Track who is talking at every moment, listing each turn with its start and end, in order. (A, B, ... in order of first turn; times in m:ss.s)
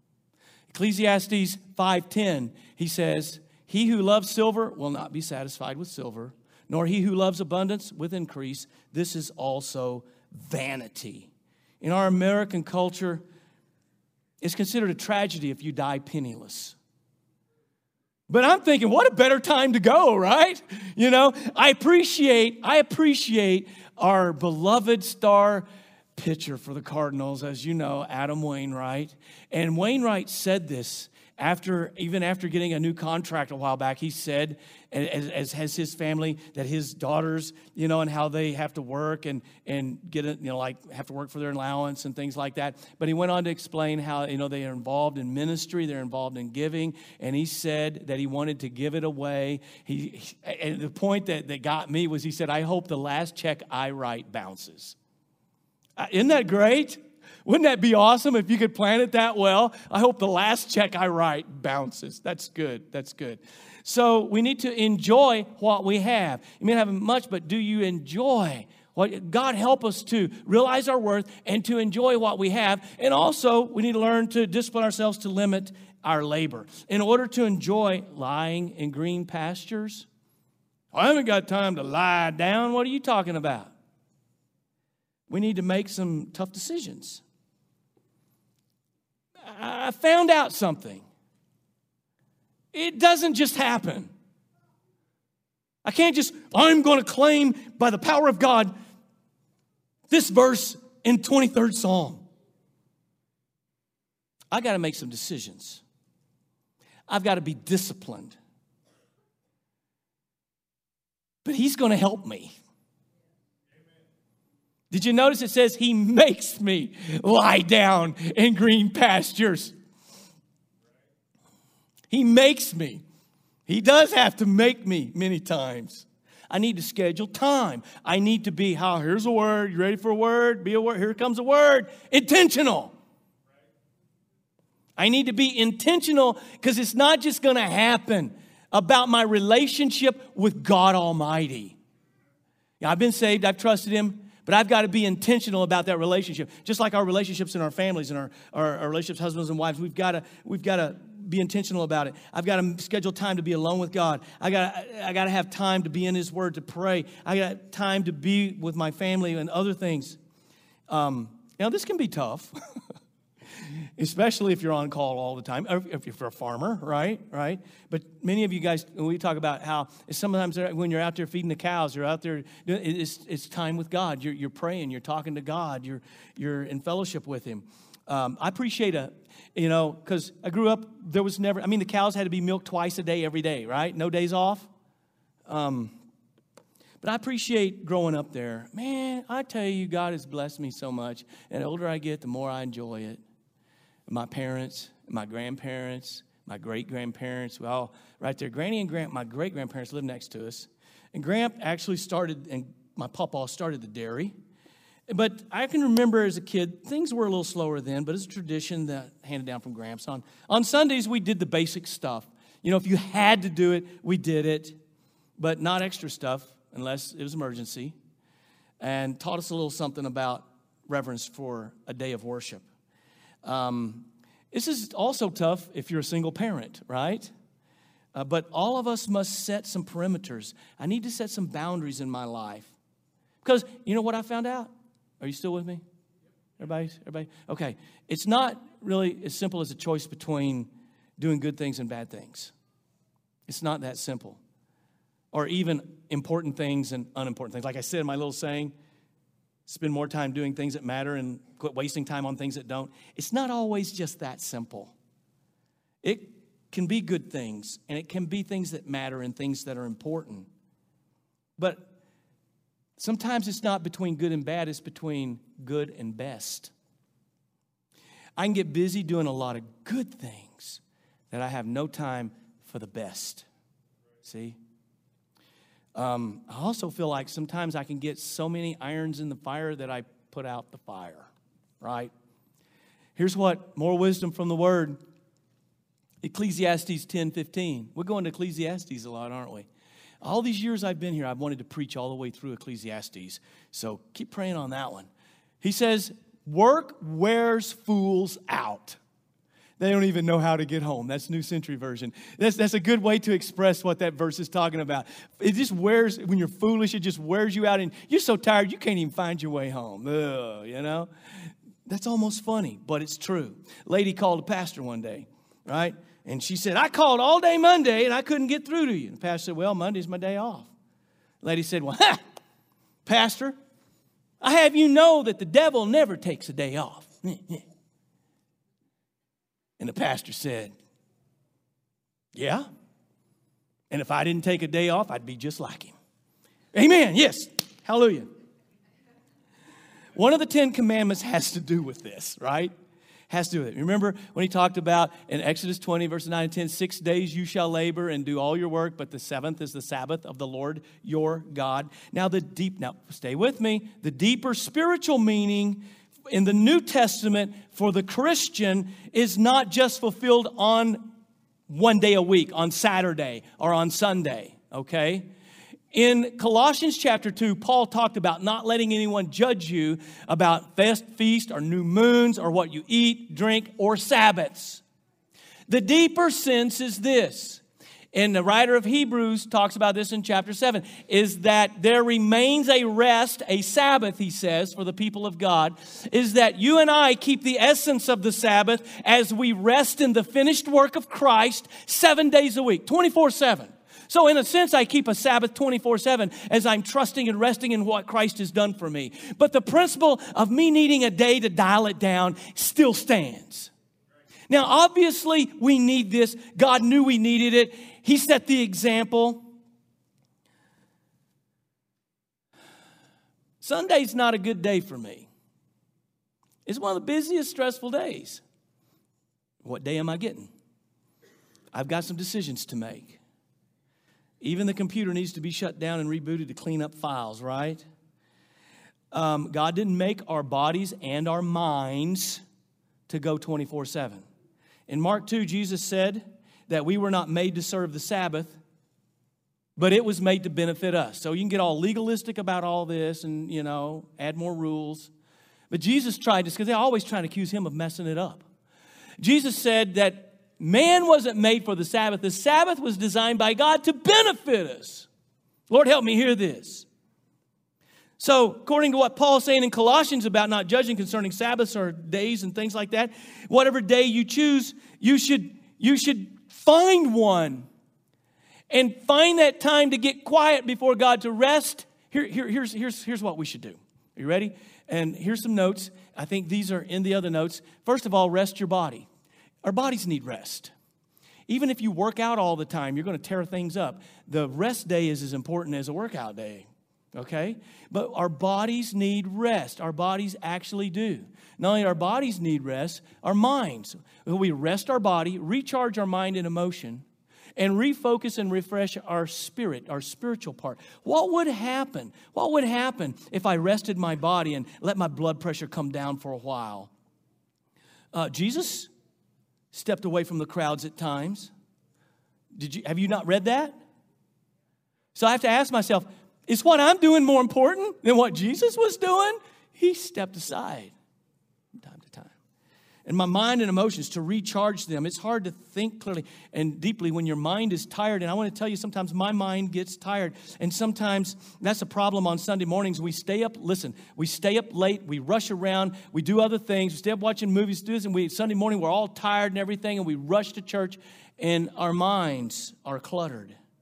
0:00.7-0:13.2 A
0:14.4-0:16.8 A
0:18.3-0:55.0 A
0:56.0-1:20.1 A
1:20.9-1:23.7 A
1:25.3-1:27.2 A
1:29.4-1:31.0 A
1:32.7-1:34.1 A
1:35.8-1:38.7 A
1:40.1-1:42.3 A
1:44.5-1:45.8 A
1:47.1-1:48.4 A
1:51.4-1:52.5 A
1:54.9-1:59.7 A
2:02.1-2:03.0 A
2:03.7-2:12.9 A
2:15.0-2:21.8 A
2:22.8-2:40.2 A
2:40.9-2:42.5 A
2:43.6-3:04.7 A
3:05.5-3:06.0 A
3:07.0-3:13.2 A
3:14.1-3:24.3 A
3:25.1-3:34.8 A
3:35.4-3:37.9 A
3:38.8-3:42.6 A
3:43.4-3:47.3 A
3:48.1-3:52.7 A
3:53.4-3:55.8 A
3:56.6-4:02.5 A
4:03.5-4:04.4 A
4:05.3-4:08.7 A
4:09.7-4:14.9 A
4:16.0-4:20.5 A
4:21.6-4:21.9 A
4:23.0-4:26.7 A
4:28.4-4:33.4 A
4:34.2-4:34.6 A
4:35.9-4:41.3 A
4:41.8-4:42.1 A
4:43.2-4:45.0 A
4:46.2-4:49.7 A
4:50.2-4:55.1 A
4:55.6-4:59.0 A
4:59.8-5:20.7 A
5:21.4-5:22.2 A
5:23.0-5:23.6 A
5:24.4-5:27.6 A
5:29.8-5:30.7 A
5:32.3-5:32.7 A
5:33.9-5:35.9 A
5:36.7-5:38.3 A
5:40.2-5:42.7 A
5:43.3-6:01.1 A
6:01.7-6:05.3 A
6:05.9-6:14.8 A
6:15.7-6:17.6 A
6:18.1-6:43.7 A
6:44.5-6:49.4 A
6:53.6-6:55.3 A
6:56.6-6:58.4 A
6:59.6-7:00.5 A
7:01.7-7:03.2 A
7:04.4-7:07.8 A
7:09.1-7:12.4 A
7:13.1-7:14.2 A
7:14.9-7:18.6 A
7:19.8-7:25.1 A
7:25.7-7:28.4 A
7:29.2-7:35.1 A
7:35.7-7:36.8 A
7:38.2-7:47.7 A
7:48.7-7:59.1 A
7:59.6-8:00.7 A
8:01.5-8:17.0 A
8:17.6-8:26.9 A
8:28.1-8:28.9 A
8:29.7-8:31.5 A
8:32.5-8:33.8 A
8:35.1-8:40.9 A
8:41.8-8:42.4 A
8:43.0-9:03.5 A